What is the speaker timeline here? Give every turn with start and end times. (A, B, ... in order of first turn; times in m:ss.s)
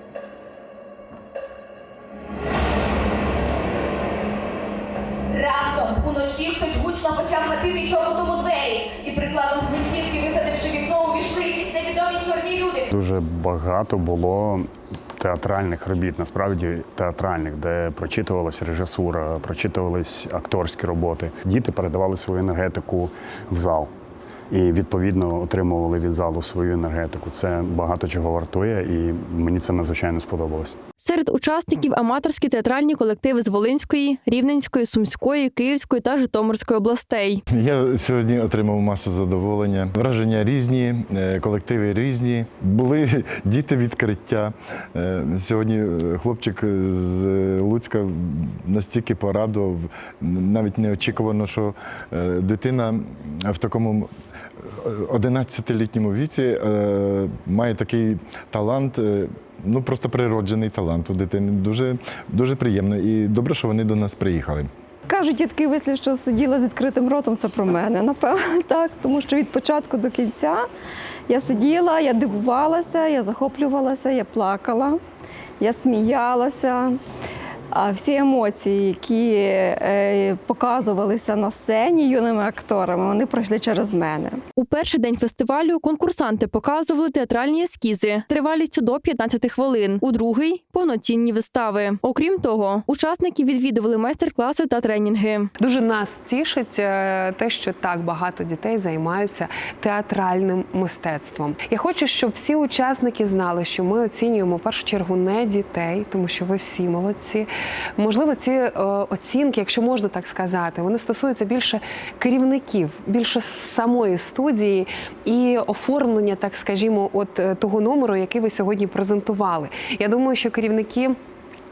0:05.3-0:12.9 A
0:12.9-0:23.9 B
0:24.5-0:30.7 B
0:31.0-0:37.4 C
0:37.5-0:54.1 D
0:54.7-1:04.7 D
1:05.1-1:10.6 E
1:11.3-1:15.0 E
1:15.6-1:16.9 E
1:17.8-1:24.4 E
1:24.6-1:35.5 C
1:35.6-2:01.2 F